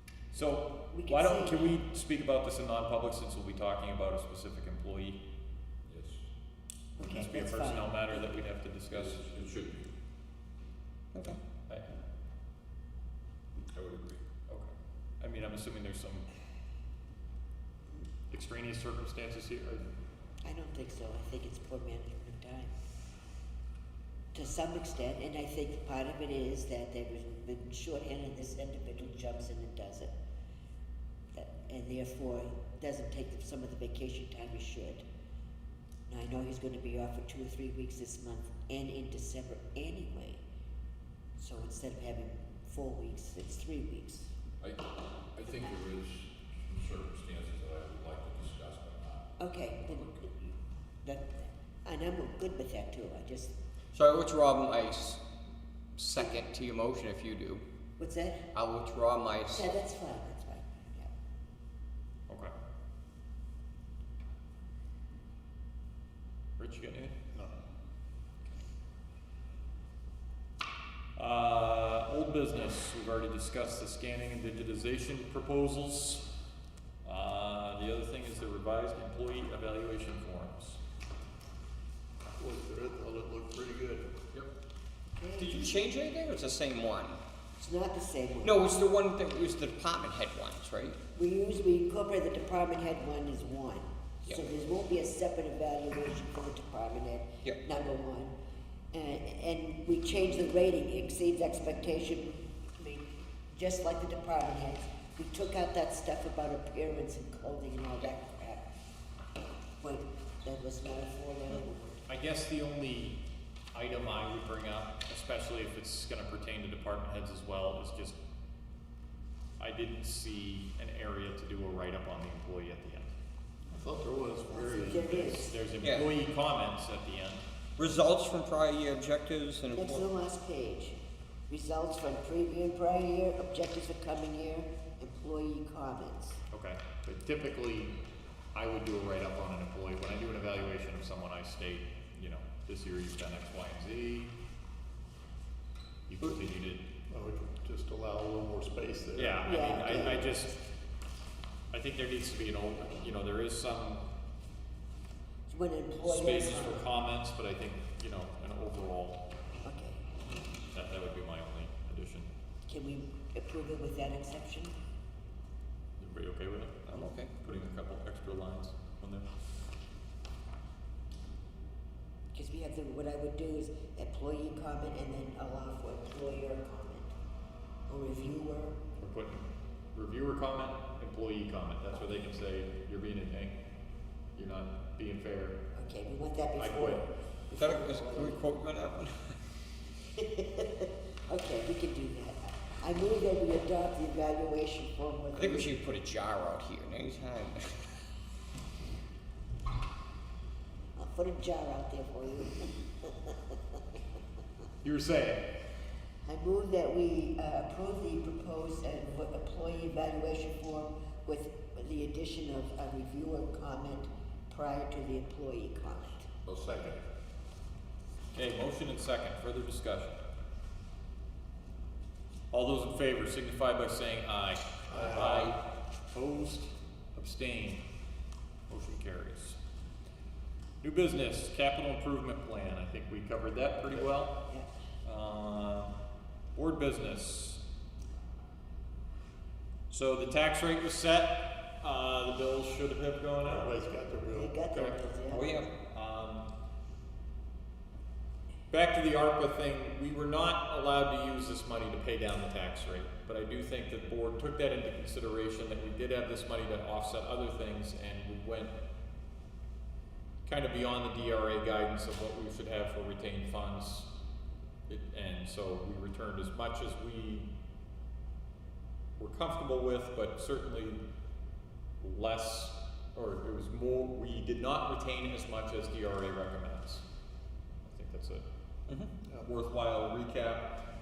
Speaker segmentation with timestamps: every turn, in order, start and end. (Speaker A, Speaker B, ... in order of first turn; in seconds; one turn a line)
Speaker A: 0.3-5.2
Speaker B: 0.8-1.8
Speaker C: 5.9-6.2
Speaker B: 7.0-8.2
Speaker A: 7.0-9.3
Speaker C: 8.9-9.9
Speaker D: 11.1-11.4
Speaker A: 11.2-11.9
Speaker C: 13.7-14.2
Speaker A: 14.5-16.3
Speaker A: 18.3-19.9
Speaker B: 20.4-22.7
Speaker B: 24.3-30.1
Speaker B: 31.3-35.0
Speaker B: 36.1-40.4
Speaker B: 41.4-44.3
Speaker C: 44.6-49.3
Speaker B: 49.4-50.3
Speaker B: 51.0-53.6
Speaker D: 53.9-55.2
Speaker D: 56.0-57.6
Speaker B: 56.2-56.4
Speaker B: 58.0-58.5
Speaker D: 58.5-59.7
Speaker B: 59.5-61.1
Speaker A: 66.6-67.2
Speaker A: 71.2-76.3
Speaker A: 77.0-80.8
Speaker E: 82.4-84.1
Speaker B: 85.1-85.8
Speaker D: 85.4-87.2
Speaker B: 87.6-88.7
Speaker D: 88.4-91.0
Speaker B: 91.2-98.3
Speaker B: 98.9-108.7
Speaker B: 109.8-112.0
Speaker A: 112.1-113.2
Speaker A: 113.7-118.2
Speaker A: 119.6-123.1
Speaker E: 123.7-125.5
Speaker B: 124.5-125.6
Speaker A: 125.5-127.4
Speaker D: 125.8-126.1
Speaker D: 127.8-130.1
Speaker B: 129.7-131.0
Speaker B: 131.5-136.4
Speaker A: 136.5-138.0
Speaker A: 138.6-144.3
Speaker A: 146.1-146.9
Speaker E: 147.1-149.4
Speaker A: 149.2-150.7
Speaker B: 149.4-150.4
Speaker A: 151.7-154.1
Speaker B: 155.5-156.9
Speaker A: 156.0-159.2
Speaker B: 159.6-160.0
Speaker A: 160.7-162.3
Speaker B: 162.7-164.8
Speaker A: 166.0-169.3
Speaker D: 166.9-167.3
Speaker B: 172.3-177.1
Speaker B: 177.9-178.8
Speaker A: 179.0-183.6
Speaker A: 184.3-185.6
Speaker B: 185.7-188.4
Speaker A: 186.6-187.1
Speaker D: 187.6-189.4
Speaker B: 190.1-195.8
Speaker D: 195.3-197.9
Speaker B: 201.0-203.8
Speaker A: 204.8-205.4
Speaker B: 206.3-216.3
Speaker C: 216.5-217.0
Speaker E: 216.6-217.0
Speaker A: 218.3-220.2
Speaker A: 222.5-225.6
Speaker E: 224.9-225.5
Speaker C: 225.2-225.5
Speaker A: 226.1-227.8
Speaker A: 228.7-229.6
Speaker A: 230.8-234.4
Speaker A: 235.1-235.9
Speaker A: 236.6-237.6
Speaker A: 239.9-243.8
Speaker E: 243.4-244.6
Speaker B: 244.3-245.5
Speaker A: 244.7-246.5
Speaker D: 245.3-245.7
Speaker A: 248.7-258.7
Speaker A: 260.4-264.1
Speaker A: 264.9-267.5
Speaker A: 269.2-271.0
Speaker A: 272.0-277.0
Speaker A: 277.9-278.4
Speaker E: 279.2-279.5
Speaker A: 279.4-280.7